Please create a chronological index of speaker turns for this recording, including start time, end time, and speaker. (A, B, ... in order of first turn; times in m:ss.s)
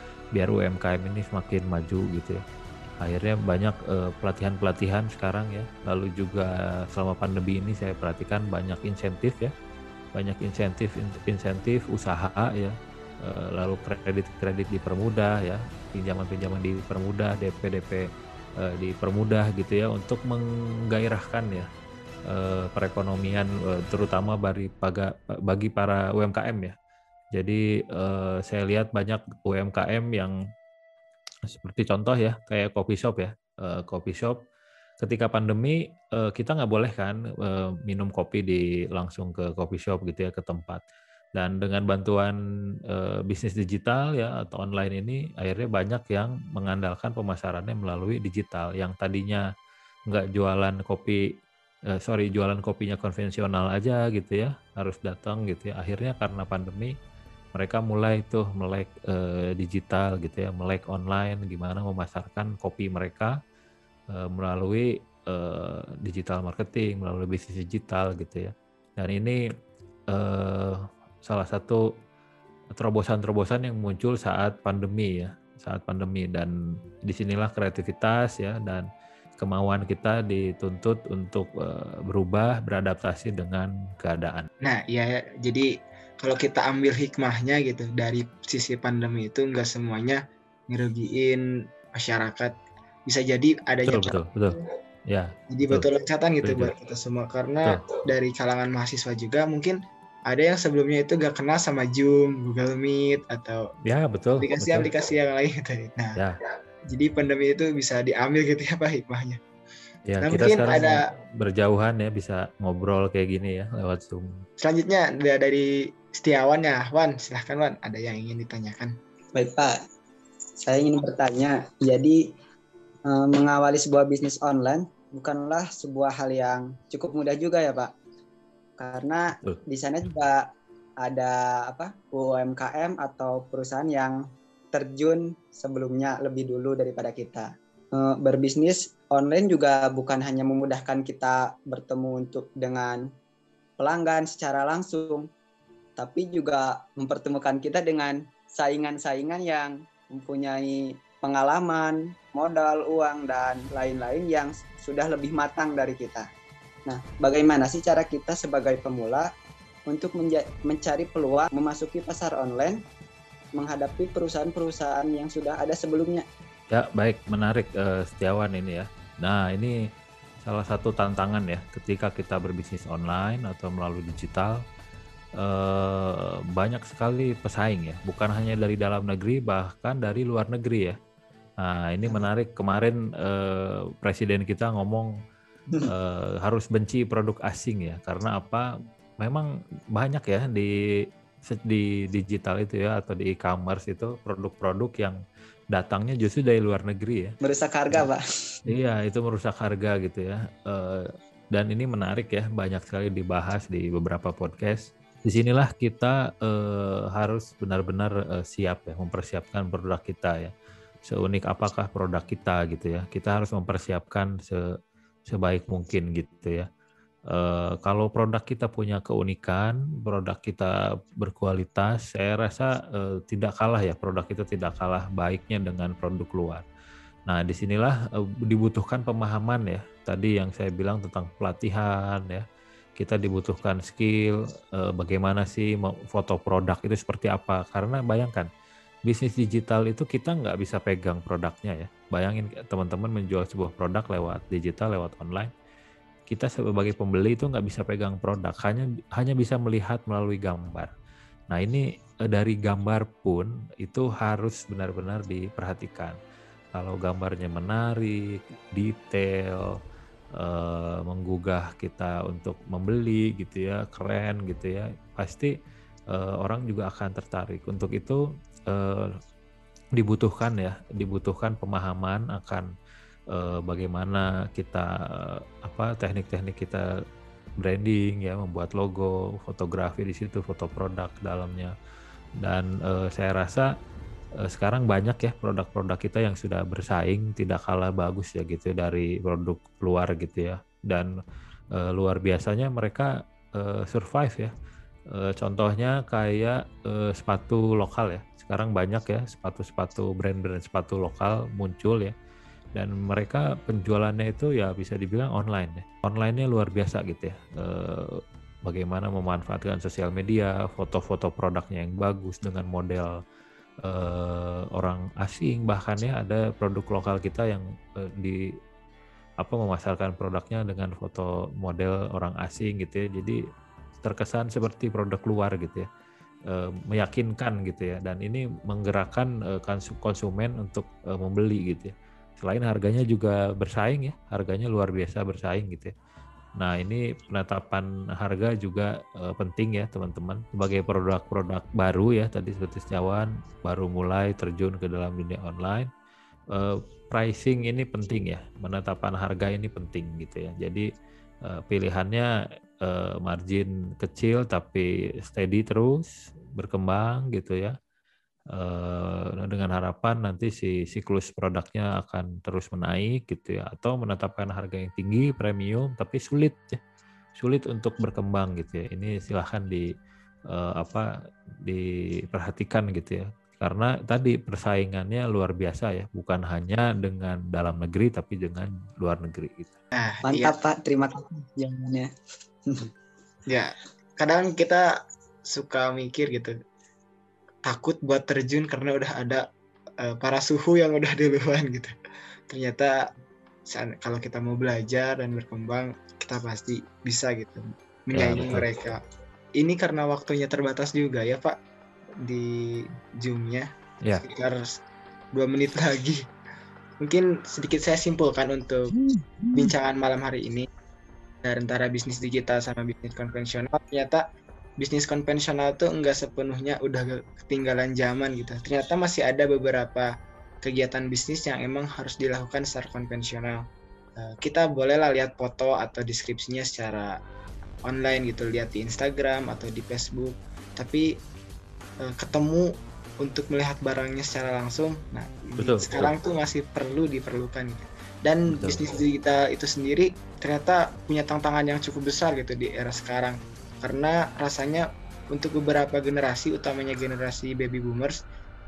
0:00.3-0:02.4 A
0:03.0-0:09.5 A
0:10.1-0:18.0 A
0:18.6-0:21.7 A
0:22.3-0:26.7 A
0:27.3-0:30.3 A
0:31.5-0:34.4 A
0:35.0-0:40.8 A
0:41.3-0:42.4 A
0:42.9-0:49.4 A
0:50.1-0:51.2 A
0:51.9-0:56.9 A
0:57.5-1:03.3 A
1:04.1-1:09.4 A
1:10.1-1:11.8 A
1:12.7-1:16.5 A
1:17.0-1:18.8 A
1:19.4-1:24.5 A
1:24.6-1:25.7 B
1:26.2-1:32.5 B
1:33.0-1:34.1 B
1:33.8-1:35.9 A
1:35.5-1:39.8 B
1:36.4-1:36.7 A
1:40.3-1:43.6 B
1:43.8-1:44.9 A
1:44.4-1:46.2 B
1:46.9-1:49.4 B
1:50.1-1:54.4 A
1:50.2-1:51.0 B
1:54.6-1:58.9 B
1:59.3-1:59.7 C
2:00.6-2:02.2 C
2:03.1-2:07.9 C
2:08.8-2:10.5 C
2:11.0-2:14.2 C
2:14.7-2:23.0 C
2:23.8-2:25.3 C
2:26.0-2:36.3 C
2:36.9-2:39.3 C
2:39.9-2:42.8 C
2:43.5-2:46.2 C
2:46.7-2:49.7 A
2:50.4-2:54.6 A
2:55.4-3:00.9 A
3:01.6-3:05.1 A
3:05.9-3:08.7 A
3:09.2-3:10.7 A
3:11.5-3:15.2 A
3:15.7-3:17.3 A
3:17.4-3:18.2 C
3:18.6-3:30.5 A
3:31.0-3:34.6 A
3:35.3-3:36.7 A
3:37.3-3:46.6 A
3:47.3-3:52.4 A
3:53.0-3:58.5 A
3:59.0-4:05.5 A
4:06.3-4:10.9 A
4:11.5-4:16.2 A
4:16.8-4:18.2 A
4:18.7-4:19.7 A
4:20.4-4:25.5 A
4:26.1-4:29.1 A
4:30.0-4:32.7 A
4:33.3-4:36.8 A
4:37.6-4:41.7 A
4:42.4-4:43.7 A
4:44.4-4:51.1 A
4:51.8-4:54.5 A
4:55.1-5:02.1 A
5:02.7-5:08.1 A
5:08.6-5:13.1 A
5:13.8-5:17.6 A
5:19.4-5:23.4 A
5:24.0-5:25.9 A
5:26.5-5:35.9 A
5:36.6-5:45.9 A
5:46.5-5:50.8 A
5:51.5-5:52.3 A
5:52.8-5:57.7 A
5:58.5-6:06.8 A
6:07.4-6:09.9 A
6:10.5-6:11.0 A
6:11.6-6:19.8 A
6:19.9-6:20.5 B
6:20.2-6:22.1 C
6:23.5-6:24.8 B
6:25.5-6:26.5 B
6:27.6-6:29.4 B
6:30.0-6:31.9 B
6:32.5-6:33.0 B
6:33.7-6:39.0 B
6:38.1-6:38.6 A
6:39.6-6:41.5 B
6:42.2-6:42.5 B
6:43.2-6:43.6 B
6:44.2-6:44.7 B
6:45.3-6:46.2 B
6:47.0-6:48.9 B
6:49.0-6:49.7 A
6:49.5-6:50.6 B
6:51.4-6:54.2 B
6:54.8-7:00.1 B
7:00.6-7:03.6 B
7:04.2-7:07.1 B
7:07.8-7:11.0 B
7:12.1-7:12.7 B
7:13.2-7:28.2 B
7:15.6-7:16.1 A
7:18.5-7:18.8 A